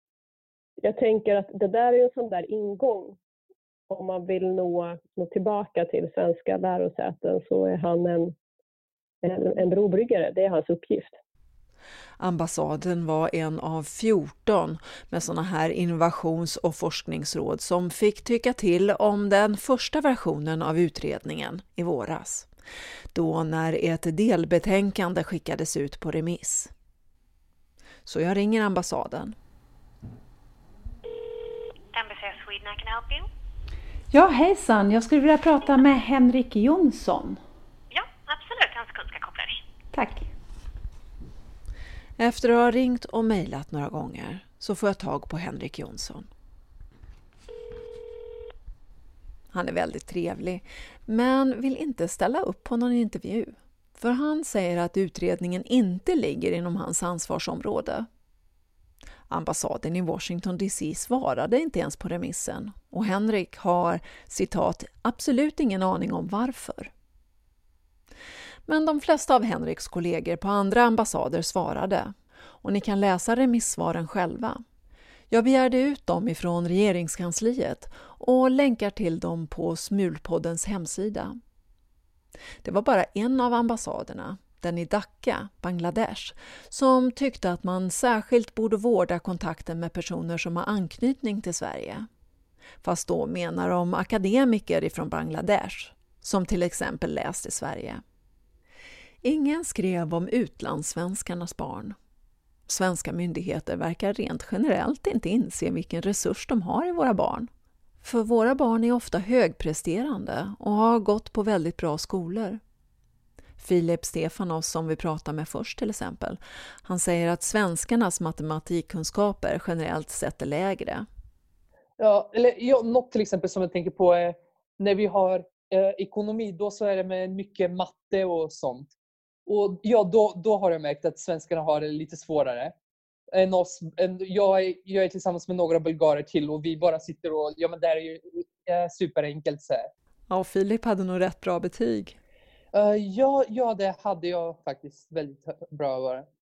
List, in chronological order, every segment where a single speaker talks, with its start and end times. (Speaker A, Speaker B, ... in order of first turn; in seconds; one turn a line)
Speaker A: 0.8-3.2
Speaker A: 3.9-8.3
Speaker A: 9.2-11.2
Speaker B: 12.2-22.5
Speaker B: 23.1-26.7
Speaker B: 28.1-29.4
Speaker C: 31.9-33.3
Speaker D: 34.1-37.4
Speaker C: 37.9-39.6
Speaker D: 39.9-40.3
Speaker B: 42.2-46.3
Speaker B: 49.5-58.1
Speaker B: 59.3-66.9
Speaker B: 68.7-74.6
Speaker B: 75.3-81.4
Speaker B: 82.6-92.1
Speaker B: 92.8-98.0
Speaker B: 99.2-102.0
Speaker B: 102.7-107.5
Speaker B: 108.0-112.6
Speaker B: 113.6-121.0
Speaker E: 122.0-128.9
Speaker E: 129.4-132.7
Speaker E: 133.3-139.9
Speaker B: 140.3-142.2
Speaker E: 142.7-146.3